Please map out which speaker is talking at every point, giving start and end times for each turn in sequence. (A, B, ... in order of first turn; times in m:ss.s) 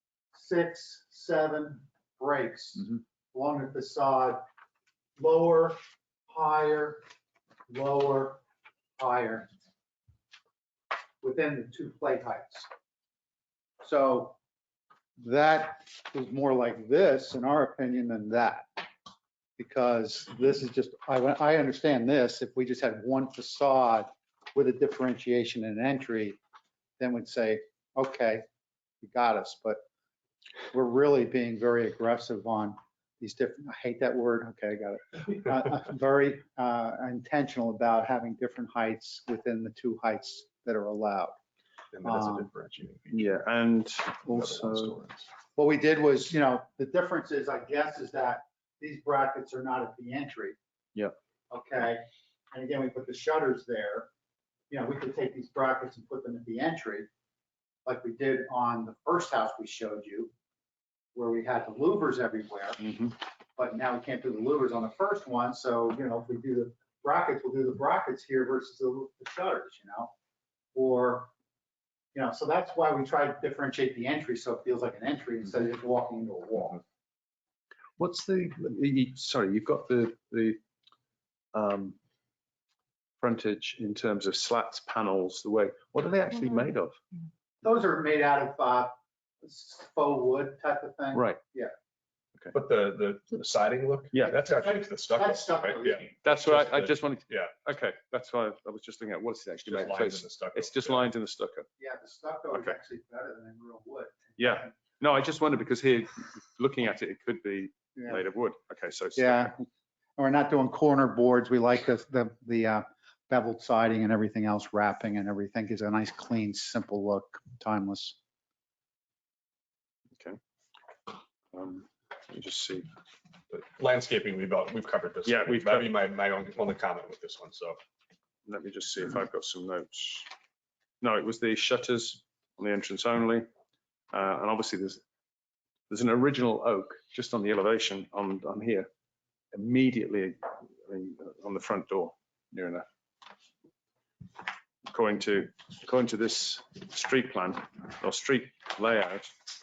0:00.3-0:04.4 A
0:05.2-0:07.0 A
0:07.7-0:08.4 A
0:09.0-0:09.5 A
0:11.2-0:12.7 A
0:13.8-0:14.4 A
0:15.2-0:18.9 A
0:19.6-0:26.4 A
0:27.0-0:28.4 A
0:29.0-0:29.8 A
0:30.7-0:41.4 A
0:41.9-0:43.4 B
0:42.0-0:42.5 A
0:43.1-0:45.0 C
0:44.3-0:45.2 B
0:45.6-0:50.6 A
0:51.5-0:54.1 A
0:54.7-0:57.1 A
0:57.8-1:00.3 A
1:01.1-1:10.1 A
1:10.7-1:11.3 A
1:12.1-1:16.8 A
1:18.0-1:20.6 C
1:21.5-1:22.0 C
1:23.2-1:27.0 C
1:27.6-1:31.7 A
1:31.1-1:31.4 C
1:32.5-1:37.6 B
1:34.1-1:34.5 C
1:34.3-1:36.2 A
1:36.2-1:41.6 C
1:39.6-1:41.1 B
1:41.8-1:44.7 A
1:44.4-1:49.5 C
1:48.0-1:48.2 A
1:49.2-1:49.6 A
1:50.2-1:58.2 A
2:01.5-2:02.9 C
2:03.5-2:07.8 B
2:05.2-2:05.9 C
2:08.4-2:10.3 C
2:11.0-2:13.5 C
2:14.1-2:15.0 C
2:15.9-2:18.9 C
2:19.5-2:22.8 C
2:24.9-2:29.3 C